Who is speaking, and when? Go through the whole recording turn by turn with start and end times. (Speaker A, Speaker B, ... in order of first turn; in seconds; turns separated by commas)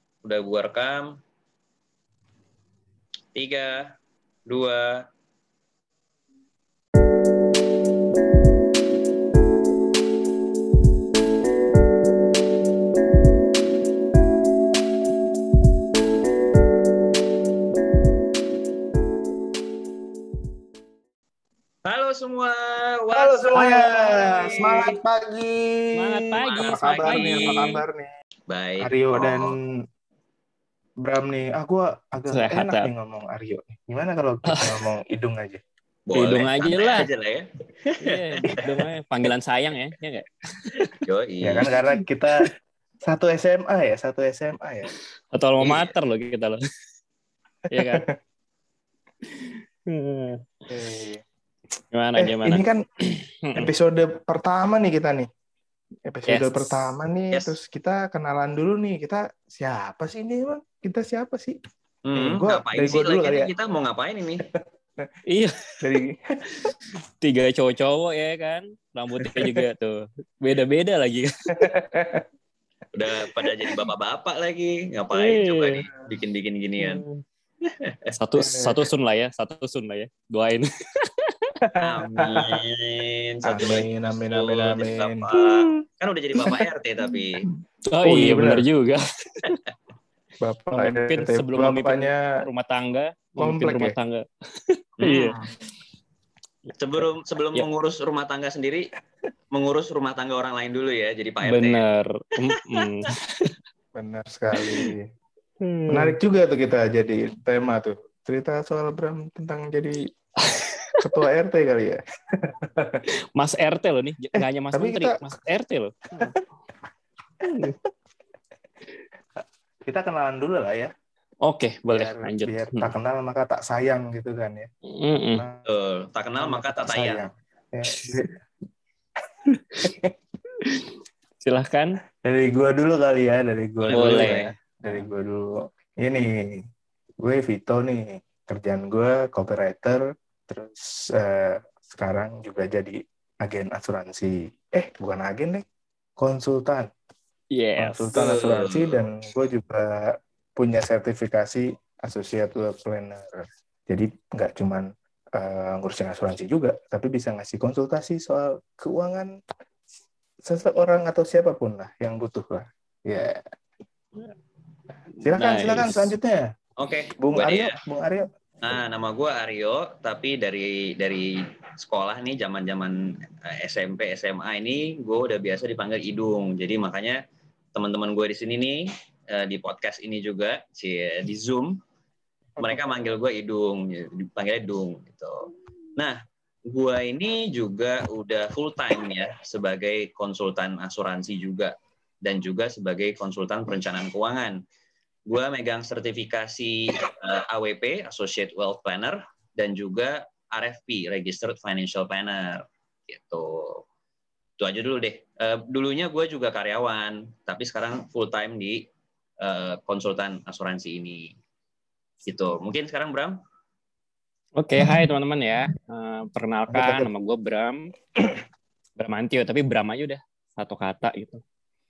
Speaker A: 0.2-1.2, Speaker A: 3.4-4.0, Speaker A: 4.5-5.0, Speaker A: 21.9-25.0, Speaker B: 23.1-28.1, Speaker C: 26.0-27.8, Speaker A: 26.4-27.8, Speaker A: 28.5-29.5, Speaker B: 28.8-29.6, Speaker B: 31.0-35.6, Speaker C: 32.3-32.9, Speaker C: 34.5-34.8, Speaker A: 36.1-38.7, Speaker C: 36.1-37.1, Speaker C: 38.0-40.9, Speaker A: 41.0-41.7, Speaker B: 41.4-42.5, Speaker B: 43.0-44.9, Speaker C: 45.3-46.6, Speaker C: 47.7-48.1, Speaker B: 47.8-48.1, Speaker C: 49.3-50.5, Speaker B: 50.7-51.2, Speaker C: 51.9-53.7, Speaker B: 52.2-52.8, Speaker B: 53.5-55.3, Speaker B: 56.1-61.6, Speaker C: 56.3-56.9, Speaker A: 62.0-64.5, Speaker B: 62.1-63.5, Speaker B: 64.5-65.1, Speaker C: 65.3-66.0, Speaker B: 65.8-66.7, Speaker C: 66.6-71.3, Speaker B: 69.2-69.7, Speaker B: 71.6-72.2, Speaker A: 72.9-77.0, Speaker C: 75.1-75.8, Speaker C: 76.8-77.2, Speaker A: 77.7-78.0, Speaker C: 78.1-81.5, Speaker B: 78.4-78.9, Speaker B: 81.6-82.6, Speaker A: 81.8-87.4, Speaker B: 83.5-85.3, Speaker C: 85.4-85.8, Speaker C: 87.9-89.6, Speaker B: 88.0-88.7, Speaker B: 90.4-92.2, Speaker C: 90.8-95.3, Speaker B: 93.4-94.0, Speaker A: 95.0-95.5, Speaker A: 96.8-98.9, Speaker A: 99.5-101.8, Speaker C: 101.4-103.5, Speaker B: 104.0-105.1, Speaker C: 104.5-104.9, Speaker C: 105.6-106.2, Speaker B: 105.9-110.0, Speaker C: 110.4-111.1, Speaker B: 111.0-113.0, Speaker C: 113.4-116.3, Speaker B: 114.4-115.2, Speaker C: 117.5-117.8, Speaker B: 119.9-120.9, Speaker C: 121.4-122.9, Speaker B: 121.9-124.7, Speaker C: 124.9-125.5, Speaker B: 125.3-125.7, Speaker A: 125.7-127.3, Speaker B: 126.4-128.4, Speaker C: 129.5-129.9, Speaker B: 129.8-130.1, Speaker C: 130.6-130.9, Speaker C: 131.4-132.0, Speaker B: 132.2-136.6, Speaker A: 133.8-134.5, Speaker C: 133.9-135.0, Speaker B: 137.2-145.6, Speaker B: 146.2-146.9, Speaker C: 147.5-148.1, Speaker B: 147.8-159.3, Speaker A: 148.1-149.0, Speaker B: 160.5-163.4, Speaker C: 165.2-166.1, Speaker B: 165.2-166.5, Speaker A: 166.8-167.8, Speaker B: 167.2-168.3, Speaker A: 168.6-177.2, Speaker A: 177.8-181.8, Speaker A: 182.6-191.7, Speaker A: 192.2-194.6, Speaker A: 195.3-203.8, Speaker A: 204.6-208.9, Speaker A: 209.4-211.3, Speaker A: 212.3-213.4, Speaker C: 214.6-217.9, Speaker B: 216.7-217.1, Speaker C: 219.0-221.4